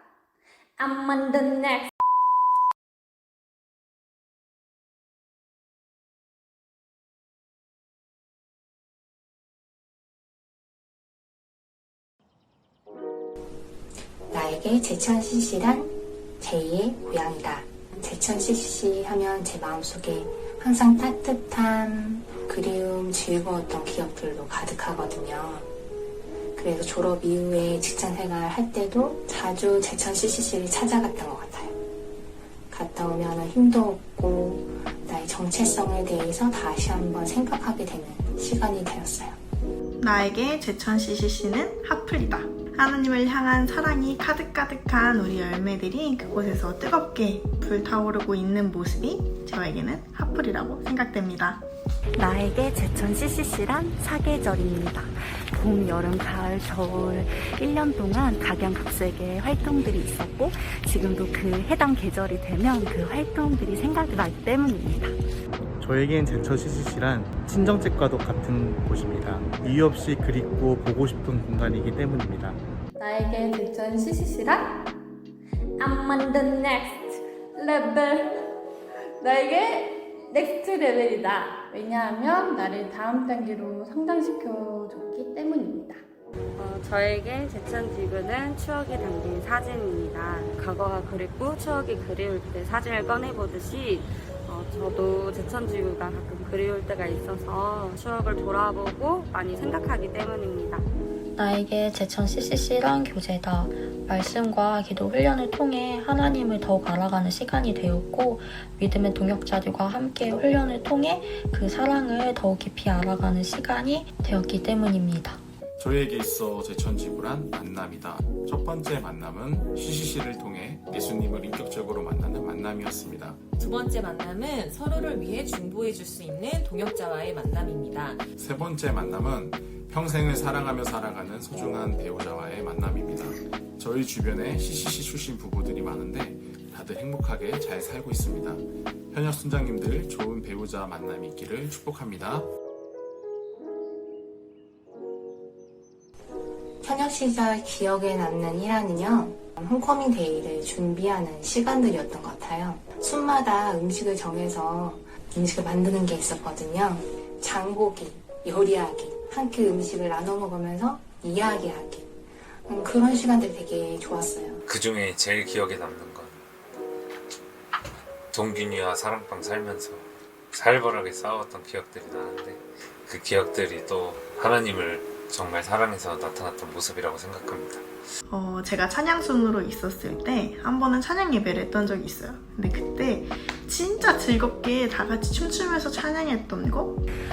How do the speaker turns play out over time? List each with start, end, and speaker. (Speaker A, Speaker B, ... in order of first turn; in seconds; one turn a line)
Speaker A: 0.8-1.9
Speaker B: 14.3-25.7
Speaker B: 26.6-31.8
Speaker B: 32.7-39.4
Speaker C: 40.0-51.6
Speaker D: 52.2-65.2
Speaker E: 65.8-72.6
Speaker A: 73.0-74.9
Speaker A: 75.8-78.4
Speaker A: 79.2-86.0
Speaker F: 86.6-100.9
Speaker G: 101.4-115.4
Speaker H: 115.8-123.4
Speaker I: 123.6-128.3
Speaker H: 128.4-142.5
Speaker B: 146.8-162.1
Speaker B: 162.7-164.6
Speaker J: 164.7-166.4
Speaker J: 168.3-177.9
Speaker C: 178.3-187.0